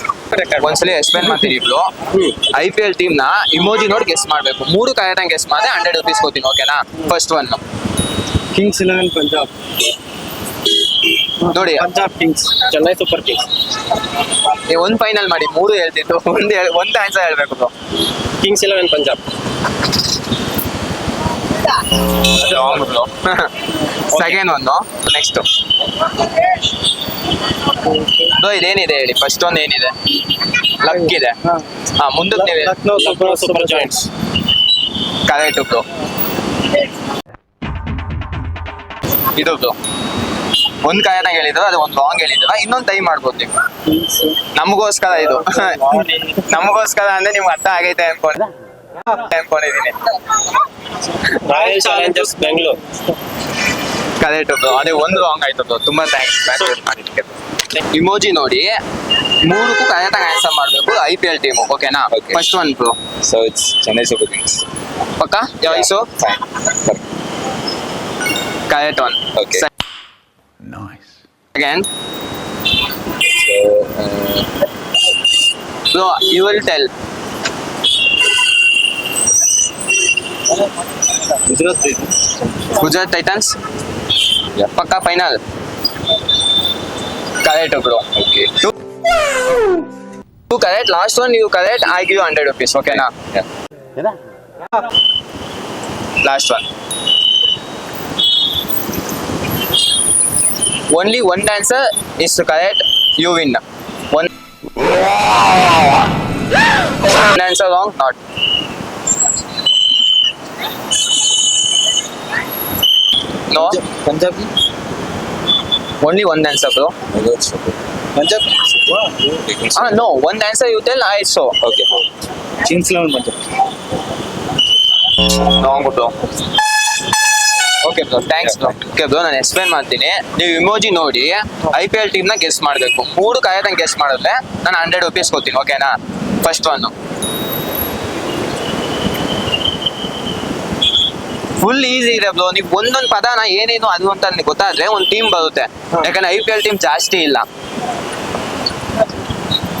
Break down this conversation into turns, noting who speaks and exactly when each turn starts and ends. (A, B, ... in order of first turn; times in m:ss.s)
0:00.3-0:00.8 A
0:00.5-0:01.9 B
0:02.5-0:07.6 B
0:08.5-0:09.4 A
0:08.6-0:09.5 C
0:11.5-0:11.9 B
0:11.8-0:13.5 A
0:11.9-0:12.6 C
0:14.5-0:17.7 B
0:18.4-0:19.2 A
0:22.2-0:23.5 B
0:24.1-0:25.5 B
0:27.9-0:28.1 A
0:28.3-0:29.9 B
0:30.6-0:31.4 B
0:32.0-0:32.8 B
0:32.4-0:34.0 A
0:32.8-0:34.0 C
0:35.2-0:35.8 B
0:39.3-0:39.7 B
0:40.8-0:43.5 B
0:43.9-0:44.3 A
0:44.5-0:48.5 B
0:45.8-0:46.3 A
0:49.0-0:50.0 B
0:51.4-0:52.8 A
0:51.5-0:52.8 C
0:54.2-0:58.8 B
0:59.4-1:03.0 B
1:02.1-1:02.4 C
1:03.2-1:04.6 C
1:05.2-1:06.1 B
1:05.6-1:07.0 C
1:08.7-1:09.7 B
1:09.4-1:09.6 C
1:11.5-1:11.9 B
1:13.3-1:14.5 C
1:15.9-1:16.9 B
1:21.4-1:22.1 A
1:22.7-1:23.6 B
1:24.5-1:25.4 B
1:27.4-1:28.7 B
1:28.2-1:28.4 C
1:30.5-1:33.1 B
1:33.0-1:33.4 C
1:36.2-1:36.6 B
1:40.9-1:44.3 B
1:47.0-1:48.2 B
1:53.5-1:53.8 B
1:53.8-1:54.5 A
1:56.0-1:56.9 B
1:57.1-1:57.8 C
1:58.2-1:59.4 A
1:59.4-2:00.0 C
1:59.7-2:01.6 B
2:01.6-2:02.0 C
2:02.6-2:03.3 A
2:05.4-2:06.2 B
2:07.9-2:16.9 B
2:08.4-2:08.8 C
2:21.6-2:27.4 B